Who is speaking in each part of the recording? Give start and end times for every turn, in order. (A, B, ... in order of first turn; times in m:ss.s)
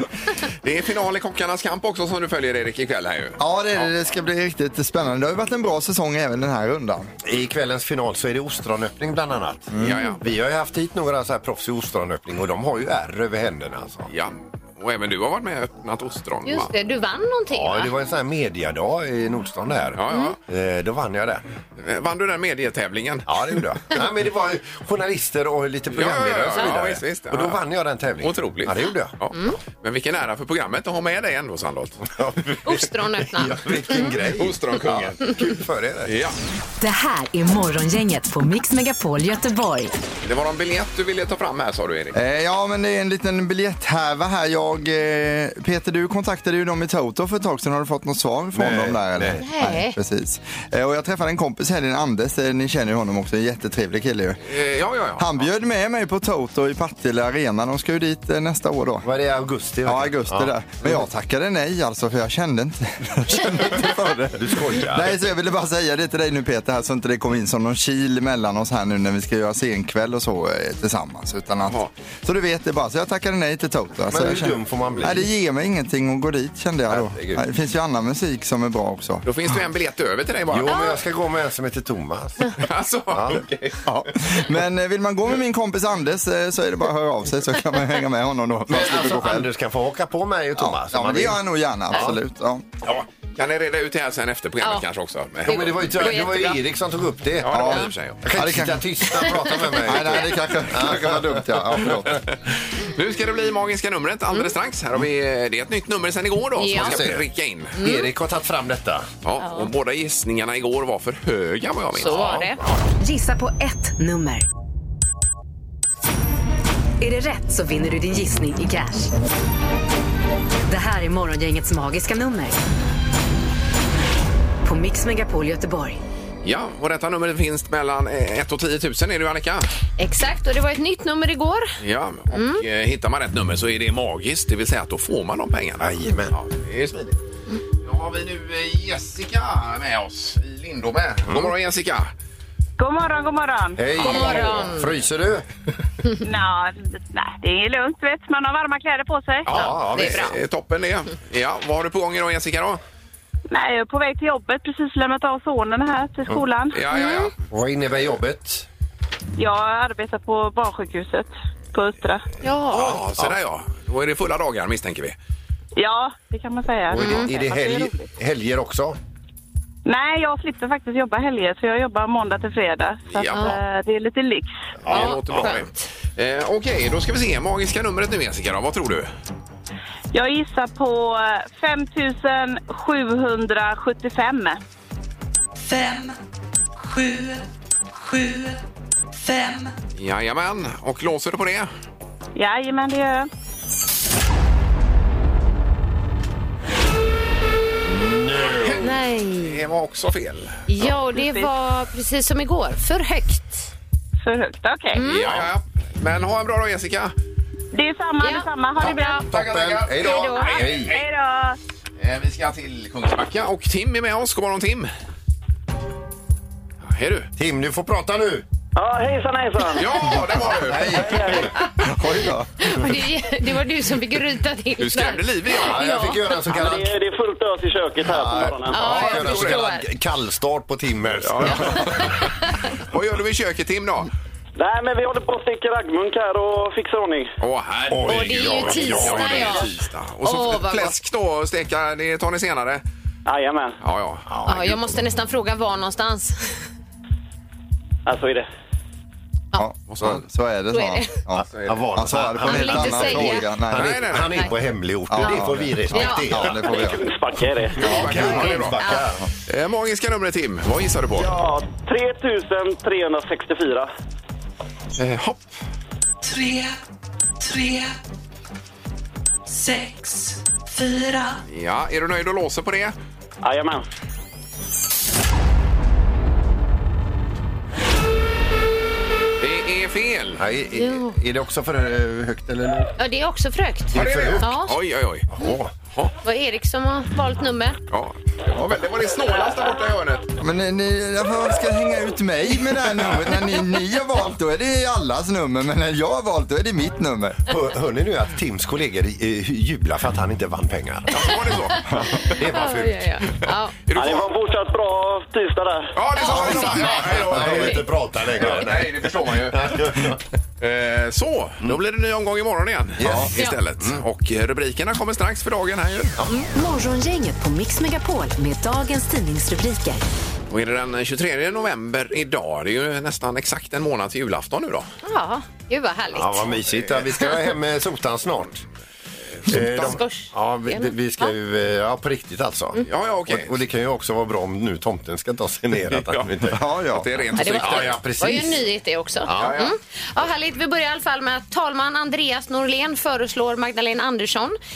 0:00.5-0:03.4 A
0:03.4-0:07.1 B
0:07.2-0:14.1 C
0:09.7-0:10.0 B
0:09.8-0:10.2 A
0:14.1-0:16.7 A
0:16.5-0:17.9 D
0:17.5-0:21.4 C
0:20.0-0:20.4 A
0:21.8-0:23.6 A
0:23.3-0:29.1 C
0:25.9-0:27.6 A
0:28.2-0:32.0 A
0:32.1-0:36.1 C
0:32.6-0:34.2 D
0:34.2-0:35.3 A
0:36.0-0:36.4 A
0:36.8-0:39.9 E
0:40.2-0:42.2 A
0:42.1-0:54.4 B
0:48.6-0:49.4 C
0:49.4-0:50.0 D
0:54.5-0:55.5 A
0:55.2-0:59.1 B
0:59.0-1:00.5 C
0:59.8-1:19.2 B
1:04.4-1:05.1 C
1:14.1-1:15.3 C
1:16.9-1:17.4 C
1:19.2-1:20.8 A
1:20.5-1:22.5 C
1:20.7-1:21.0 D
1:22.6-1:23.8 A
1:23.1-1:23.4 C
1:23.8-1:29.5 B
1:28.7-1:31.4 C
1:30.6-1:32.7 B
1:31.9-1:32.2 C
1:32.8-1:36.4 A
1:35.5-1:41.8 C
1:35.5-1:36.6 D
1:37.4-1:38.2 A
1:37.5-1:38.8 B
1:39.1-1:40.1 D
1:39.8-1:42.2 B
1:42.2-1:47.8 A
1:46.6-1:47.1 D
1:46.7-1:47.2 C
1:47.8-1:48.1 D
1:47.8-1:49.1 C
1:49.2-1:52.8 A
1:49.4-1:49.7 D
1:52.0-1:52.6 D
1:53.0-1:54.5 E
1:57.0-1:59.1 E
2:00.7-2:02.6 E
2:04.6-2:06.0 E
2:06.4-2:09.7 A
2:10.0-2:11.7 D
2:11.8-2:17.2 A
2:12.3-2:12.6 D
2:15.8-2:16.4 C
2:17.8-2:22.1 A
2:21.3-2:21.5 C
2:22.8-2:24.3 F
2:23.8-2:25.5 C
2:24.0-2:24.9 D
2:26.2-2:29.5 F
2:29.4-2:32.8 A
2:29.5-2:30.4 C
2:29.5-2:30.4 D
2:33.5-2:36.8 F
2:36.7-2:37.3 A
2:36.9-2:37.3 D
2:37.5-2:38.7 C
2:39.4-2:42.3 F
2:42.4-2:43.0 D
2:42.7-2:45.2 A
2:45.8-2:48.1 F
2:46.9-2:49.0 C
2:47.0-2:47.3 D
2:49.9-2:54.5 F
2:53.1-2:53.6 A
2:53.2-2:53.6 D
2:54.8-2:55.6 C
2:54.9-2:59.1 A
2:54.9-2:55.7 D
3:00.1-3:04.6 F
3:10.0-3:11.7 A
3:12.4-3:13.3 F
3:17.8-3:18.9 C
3:18.4-3:20.7 A
3:18.8-3:19.6 D
3:20.7-3:23.7 D
3:21.1-3:21.5 F
3:24.2-3:25.0 F
3:24.9-3:25.3 D
3:25.0-3:27.1 A
3:27.7-3:29.3 F
3:28.2-3:29.2 D
3:28.8-3:30.9 C
3:29.3-3:31.0 A
3:30.0-3:30.6 D
3:30.3-3:31.6 F
3:32.0-3:34.9 A
3:36.8-3:37.3 A
3:37.4-3:38.4 C
3:38.8-3:39.9 G
3:39.8-3:41.4 A
3:40.6-3:41.5 C
3:40.7-3:42.8 B
3:41.1-3:41.4 G
3:42.6-3:46.2 D
3:44.8-3:45.9 A
3:45.5-3:47.0 C
3:46.5-3:49.0 G
3:48.0-3:52.2 C
3:48.7-3:49.9 D
3:48.8-3:49.6 A
3:51.2-3:52.2 A
3:51.7-3:52.6 D
3:52.8-3:54.1 A
3:54.6-3:57.3 G
3:57.4-4:02.8 A
3:57.9-3:59.7 C
3:58.1-3:59.7 D
4:00.2-4:01.0 D
4:03.3-4:03.8 G
4:03.8-4:04.3 A
4:04.3-4:04.8 C
4:04.4-4:06.6 D
4:08.1-4:08.5 G
4:09.6-4:14.0 B
4:09.9-4:10.2 A
4:10.7-4:11.2 D
4:11.4-4:16.6 C
4:11.5-4:11.8 A
4:12.4-4:13.5 D
4:13.7-4:14.5 A
4:15.1-4:17.0 B
4:15.2-4:16.8 D
4:16.8-4:17.8 G
4:17.8-4:21.4 A
4:17.8-4:19.2 C
4:18.2-4:19.0 D
4:21.2-4:23.9 G
4:25.0-4:25.6 A
4:31.5-4:33.0 A
4:33.4-4:33.8 G
4:39.4-4:40.4 A
4:40.4-4:42.9 C
4:40.8-4:41.1 D
4:43.0-4:44.8 D
4:43.9-4:44.5 C
4:43.9-4:45.3 A
4:45.3-4:45.7 C
4:46.2-4:47.8 D
4:47.9-4:50.3 A
4:50.4-4:57.5 B
4:57.5-5:01.6 C
5:01.1-5:02.1 A
5:02.2-5:03.2 C
5:02.2-5:03.7 D
5:03.9-5:04.3 A
5:04.0-5:05.9 G
5:06.0-5:10.1 A
5:06.2-5:07.8 D
5:06.3-5:10.2 C
5:10.6-5:16.2 A
5:13.0-5:14.0 C
5:16.2-5:16.4 C
5:16.5-5:20.0 E
5:20.5-5:24.9 A
5:25.0-5:26.6 D
5:26.1-5:28.6 C
5:29.4-5:36.6 C
5:29.5-5:30.0 A
5:29.5-5:31.3 D
5:32.9-5:33.6 A
5:35.9-5:38.0 A
5:36.5-5:37.1 B
5:37.4-5:44.6 D
5:37.4-5:38.7 C
5:39.2-5:39.6 C
5:39.3-5:39.7 A